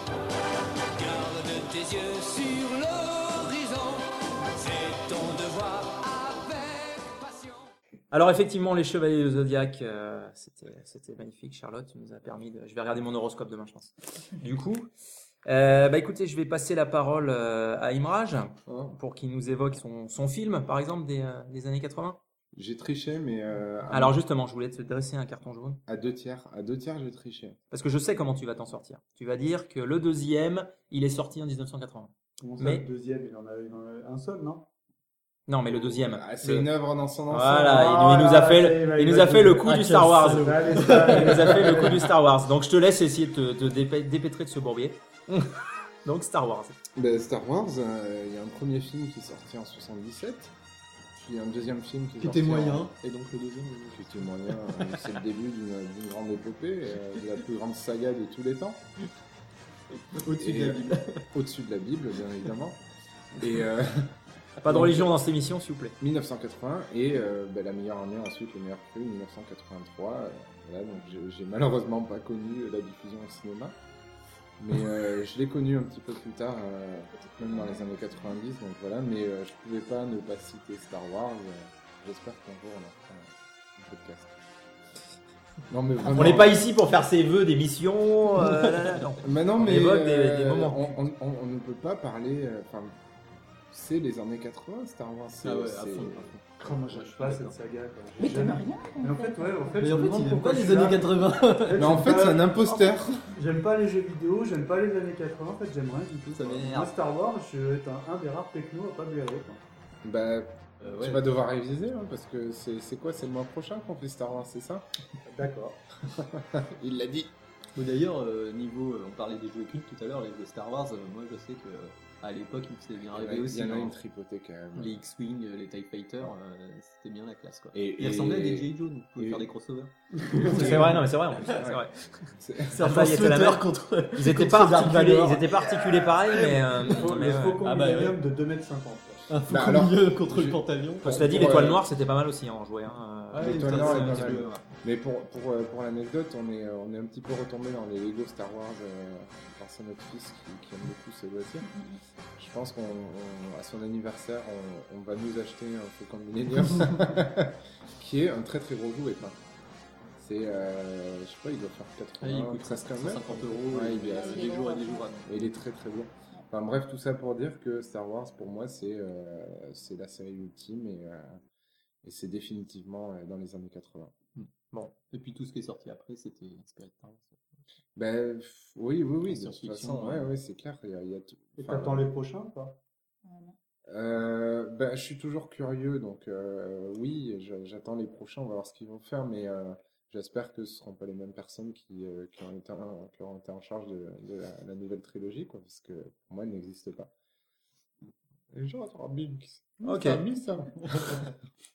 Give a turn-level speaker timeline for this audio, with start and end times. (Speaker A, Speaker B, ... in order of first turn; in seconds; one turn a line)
Speaker A: 0.9-7.7
Speaker B: 8.1-14.9
Speaker B: 15.4-22.2
Speaker C: 18.7-19.0
Speaker C: 22.5-24.2
Speaker B: 23.9-25.8
Speaker C: 25.9-27.6
Speaker B: 27.7-32.9
Speaker D: 32.4-34.7
Speaker B: 35.5-36.7
Speaker C: 35.9-38.0
Speaker B: 37.3-45.5
Speaker D: 37.7-42.1
Speaker E: 39.6-41.6
Speaker B: 46.0-46.8
Speaker C: 47.0-50.5
Speaker C: 51.2-52.9
Speaker E: 52.2-55.0
Speaker C: 53.9-58.8
Speaker E: 60.1-61.3
Speaker C: 60.4-62.8
Speaker C: 63.4-64.1
Speaker B: 64.6-66.0
Speaker C: 64.7-65.1
Speaker C: 66.0-73.8
Speaker C: 74.6-84.3
Speaker C: 85.7-86.7
Speaker B: 86.1-91.0
Speaker C: 89.2-93.0
Speaker C: 93.7-96.3
Speaker E: 95.4-97.5
Speaker D: 96.6-102.7
Speaker F: 98.2-99.8
Speaker E: 99.8-102.1
Speaker C: 101.8-103.2
Speaker D: 103.3-109.6
Speaker E: 106.3-107.0
Speaker C: 110.0-114.9
Speaker E: 110.8-111.2
Speaker D: 115.3-115.8
Speaker C: 116.1-117.3
Speaker E: 117.8-123.9
Speaker C: 123.2-125.0
Speaker E: 124.8-131.5
Speaker C: 127.7-129.5
Speaker D: 130.2-130.8
Speaker B: 130.6-131.9
Speaker C: 131.5-131.8
Speaker C: 132.4-132.8
Speaker E: 132.7-135.6
Speaker B: 132.8-137.6
Speaker D: 135.7-139.4
Speaker E: 136.9-138.2
Speaker E: 139.3-141.8
Speaker C: 139.5-141.8
Speaker B: 141.0-144.5
Speaker E: 143.3-144.6
Speaker C: 143.4-151.7
Speaker F: 151.7-152.0
Speaker C: 152.4-159.4
Speaker C: 160.2-164.5
Speaker E: 162.2-165.3
Speaker F: 164.1-165.1
Speaker C: 165.3-171.4
Speaker C: 172.0-174.2
Speaker E: 175.1-177.4
Speaker C: 178.0-182.1
Speaker E: 179.2-180.3
Speaker D: 181.6-182.8
Speaker F: 183.2-183.6
Speaker C: 183.9-197.1
Speaker C: 198.5-201.2
Speaker B: 199.8-200.2